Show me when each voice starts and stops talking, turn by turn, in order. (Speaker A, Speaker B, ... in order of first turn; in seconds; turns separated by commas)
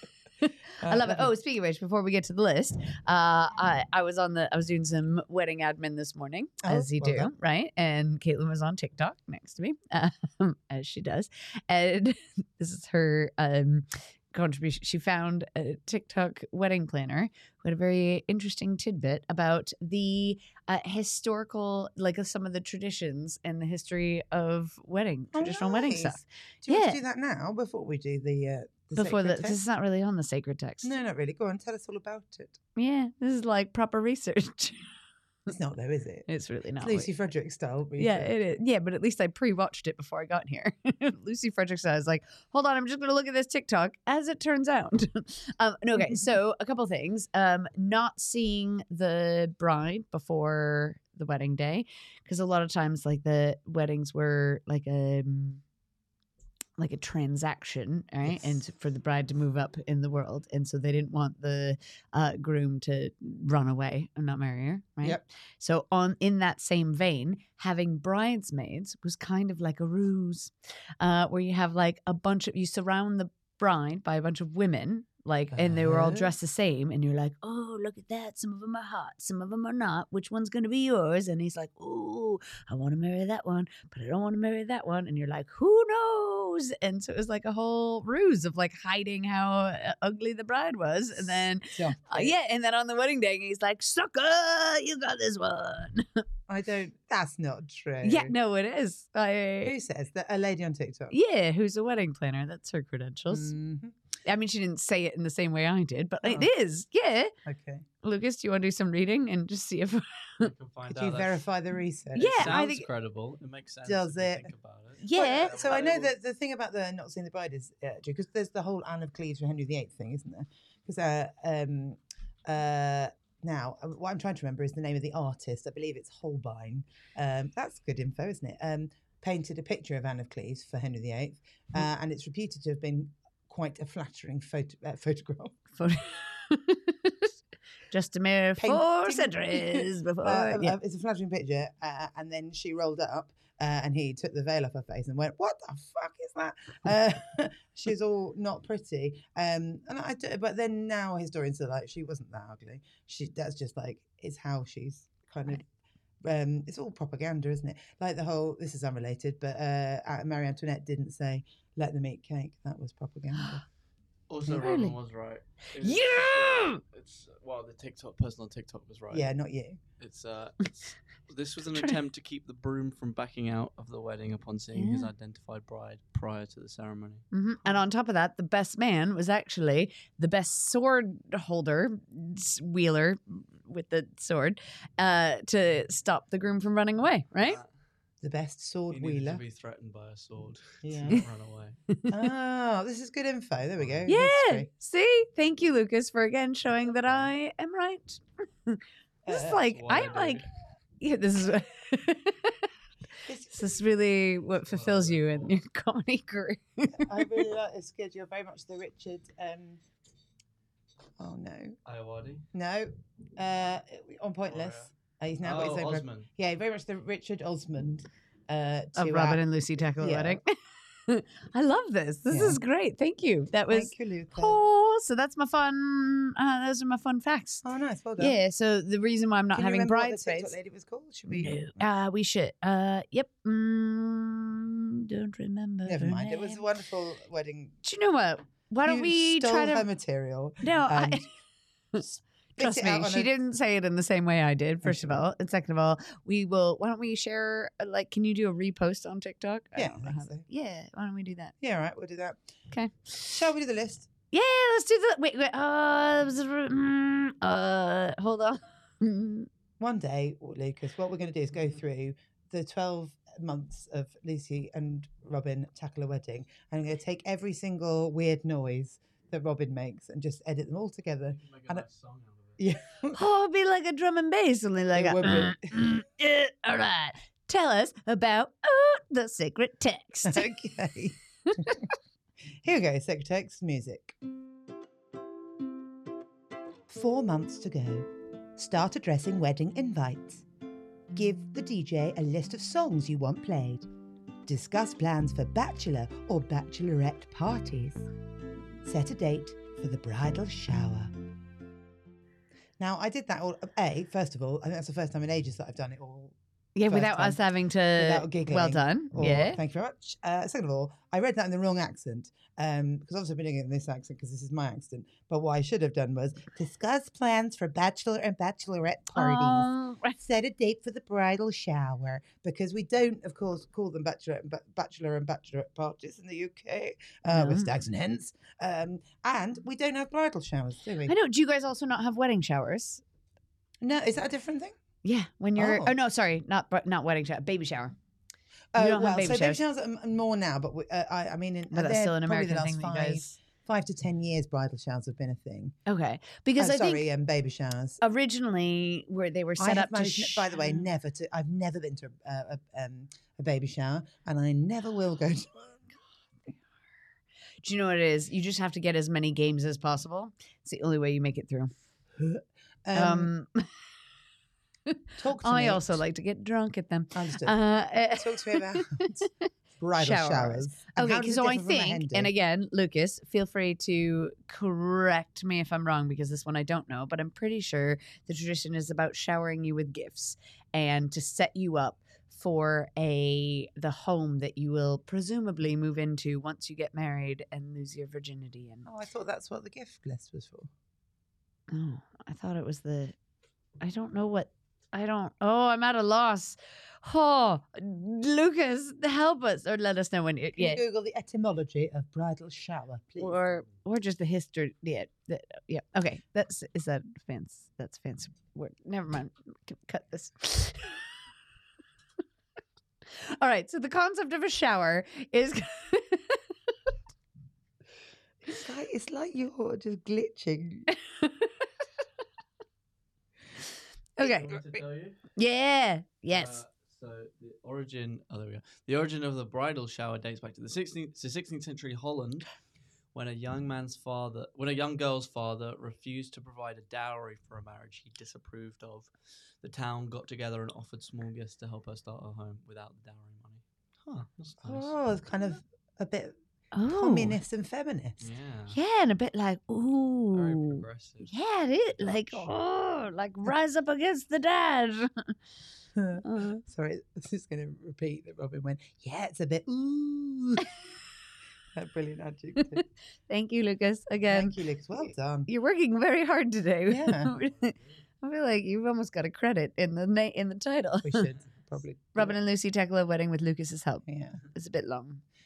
Speaker A: 0.4-27.0, Speaker B: 0.8-1.3, Speaker B: 6.6-7.3, Speaker B: 25.3-29.6, Speaker A: 28.9-30.9, Speaker B: 30.8-32.6, Speaker A: 32.8-34.9, Speaker B: 35.5-36.3, Speaker A: 36.3-37.1, Speaker B: 36.8-38.3, Speaker A: 38.0-55.6, Speaker A: 56.8-96.2, Speaker B: 58.2-58.6, Speaker B: 75.5-76.3, Speaker B: 91.3-92.3, Speaker B: 96.5-98.3, Speaker A: 98.0-99.8, Speaker B: 99.6-101.2, Speaker A: 101.1-103.5, Speaker B: 103.3-103.9, Speaker A: 104.2-107.3, Speaker B: 106.2-106.5, Speaker B: 107.4-107.8, Speaker A: 108.0-110.5, Speaker C: 110.4-111.4, Speaker B: 110.9-112.8, Speaker A: 112.1-112.8, Speaker C: 112.4-116.1, Speaker B: 113.8-114.5, Speaker A: 115.0-115.5, Speaker B: 115.1-135.6, Speaker A: 135.8-137.3, Speaker A: 137.9-140.7, Speaker B: 138.6-155.7, Speaker B: 156.2-163.6, Speaker C: 164.3-169.3, Speaker A: 164.5-164.9, Speaker A: 165.8-166.8, Speaker B: 169.1-169.8, Speaker C: 170.0-177.2, Speaker A: 174.7-175.1, Speaker A: 177.3-187.6, Speaker C: 187.4-187.7, Speaker B: 188.2-189.4, Speaker C: 188.9-191.8, Speaker B: 190.8-191.2, Speaker B: 192.1-194.7, Speaker C: 193.8-194.1, Speaker A: 194.1-200.5, Speaker C: 197.0-197.3, Speaker B: 199.2-199.6, Speaker C: 199.6-200.5, Speaker A: 201.0-202.7, Speaker B: 203.2-203.7, Speaker A: 203.5-207.4, Speaker C: 204.6-205.6, Speaker B: 207.0-209.8, Speaker B: 211.2-211.8, Speaker C: 211.8-212.5, Speaker B: 212.5-219.4, Speaker C: 214.5-214.9, Speaker C: 215.4-216.3, Speaker A: 218.9-220.5, Speaker B: 220.0-220.4, Speaker A: 221.1-227.6, Speaker B: 222.3-222.6, Speaker B: 223.7-224.6, Speaker B: 227.6-228.3, Speaker A: 228.2-230.5, Speaker B: 229.5-231.8, Speaker A: 231.3-236.6, Speaker B: 235.8-237.8, Speaker A: 237.8-239.8, Speaker B: 238.8-241.3, Speaker A: 240.6-241.3, Speaker B: 242.0-243.3, Speaker A: 242.6-251.5, Speaker B: 244.8-245.2, Speaker B: 249.8-250.4, Speaker B: 251.6-252.5, Speaker A: 252.7-253.3, Speaker B: 253.1-254.1, Speaker A: 254.3-259.5, Speaker B: 259.8-271.8, Speaker C: 271.3-272.6, Speaker B: 272.6-273.2, Speaker A: 273.1-280.5, Speaker B: 274.9-275.7, Speaker B: 280.2-281.9, Speaker B: 282.6-284.1, Speaker B: 286.9-290.4, Speaker B: 291.1-293.9, Speaker B: 294.4-298.1, Speaker B: 298.8-301.1, Speaker B: 302.8-306.3, Speaker A: 306.8-309.6, Speaker B: 306.9-307.4, Speaker B: 307.9-331.1, Speaker A: 319.1-320.2, Speaker A: 327.3-327.7, Speaker A: 331.1-333.0, Speaker B: 333.8-334.8, Speaker A: 335.0-337.9, Speaker B: 335.6-335.9, Speaker B: 338.7-345.8, Speaker A: 338.8-339.6, Speaker A: 341.7-343.3, Speaker A: 345.9-347.0, Speaker B: 346.6-348.0, Speaker A: 348.0-350.8, Speaker B: 349.6-355.9, Speaker A: 357.6-361.7, Speaker B: 362.2-363.3, Speaker A: 362.9-363.7, Speaker A: 364.9-369.4, Speaker B: 365.2-365.8, Speaker B: 367.1-367.6, Speaker B: 368.1-369.3, Speaker B: 369.8-372.3, Speaker A: 369.9-388.9, Speaker B: 388.8-390.7, Speaker A: 391.7-393.1, Speaker A: 393.8-400.8, Speaker B: 400.6-403.6, Speaker A: 403.2-411.3, Speaker A: 413.2-416.5, Speaker B: 418.4-420.9, Speaker A: 420.9-421.7, Speaker A: 424.2-424.6, Speaker C: 424.2-425.2, Speaker A: 425.3-426.6, Speaker C: 426.3-432.5, Speaker C: 433.1-444.9, Speaker B: 444.6-448.3, Speaker A: 446.7-447.4, Speaker C: 448.2-448.8, Speaker A: 448.7-455.4, Speaker C: 450.3-451.4, Speaker C: 451.9-452.5, Speaker B: 455.9-460.7, Speaker A: 456.2-456.6, Speaker B: 461.7-462.8, Speaker A: 463.3-464.6, Speaker B: 464.3-465.5, Speaker A: 465.5-471.3, Speaker B: 466.9-467.3, Speaker B: 471.0-472.4, Speaker A: 472.1-475.2, Speaker B: 474.1-474.4